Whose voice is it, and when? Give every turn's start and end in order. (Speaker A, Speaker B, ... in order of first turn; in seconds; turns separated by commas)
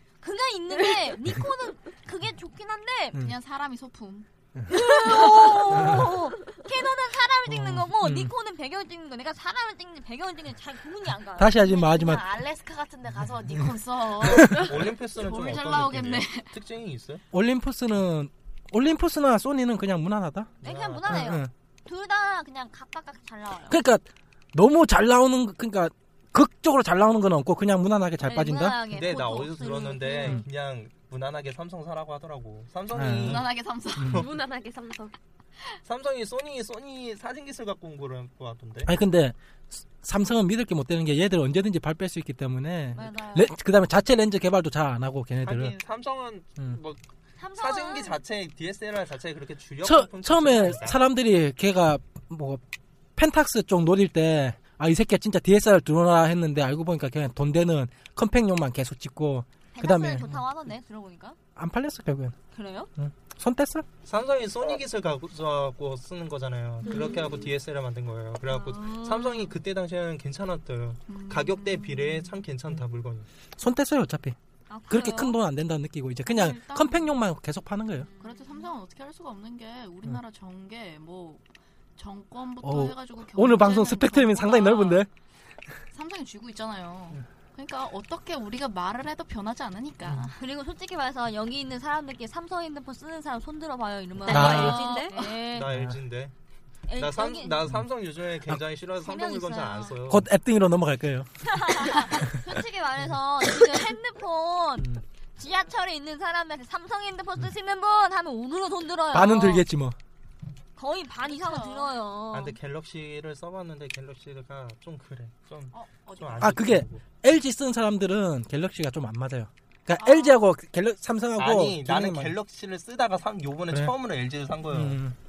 Speaker A: 0.2-3.2, Speaker B: 3.2-4.3, Speaker A: 4.7-11.6, Speaker C: 5.7-6.2, Speaker C: 7.5-8.3, Speaker C: 11.4-12.2, Speaker B: 11.6-16.5, Speaker C: 14.2-14.7, Speaker D: 14.3-17.2, Speaker C: 17.3-20.5, Speaker D: 20.6-21.4, Speaker A: 20.6-23.8, Speaker C: 21.1-21.5, Speaker C: 23.7-28.8, Speaker A: 28.2-30.4, Speaker D: 28.9-33.5, Speaker C: 32.9-33.4, Speaker B: 33.1-34.2, Speaker C: 34.0-34.2, Speaker E: 34.1-35.1, Speaker D: 35.9-38.9, Speaker C: 38.9-45.8, Speaker A: 43.0-43.5, Speaker D: 45.4-47.0, Speaker A: 47.4-48.2, Speaker D: 47.6-51.0, Speaker C: 49.8-52.6, Speaker C: 53.2-60.4, Speaker A: 59.7-61.4, Speaker C: 61.6-62.4, Speaker A: 62.5-62.9, Speaker C: 63.0-63.9, Speaker D: 64.0-73.3, Speaker A: 66.8-67.2, Speaker E: 66.9-67.3, Speaker A: 68.5-69.5, Speaker B: 71.1-72.3, Speaker C: 73.6-74.4, Speaker A: 74.7-75.4, Speaker C: 74.9-78.1, Speaker B: 76.3-77.2, Speaker A: 78.0-78.7, Speaker B: 78.2-81.4, Speaker B: 82.0-85.1, Speaker C: 82.6-85.1, Speaker B: 85.9-90.3, Speaker A: 90.4-95.7, Speaker C: 94.3-94.9, Speaker E: 94.3-95.2, Speaker B: 94.3-95.3, Speaker D: 95.5-96.3, Speaker C: 95.7-96.0, Speaker A: 96.9-97.6, Speaker D: 97.0-100.3, Speaker B: 99.0-100.0, Speaker C: 100.1-101.5, Speaker A: 101.5-109.7, Speaker C: 109.1-110.0, Speaker A: 110.8-112.6, Speaker B: 111.3-111.9, Speaker D: 112.3-117.0, Speaker B: 115.7-116.6, Speaker C: 116.4-122.3, Speaker B: 120.0-120.4, Speaker D: 121.4-125.0, Speaker C: 124.7-125.2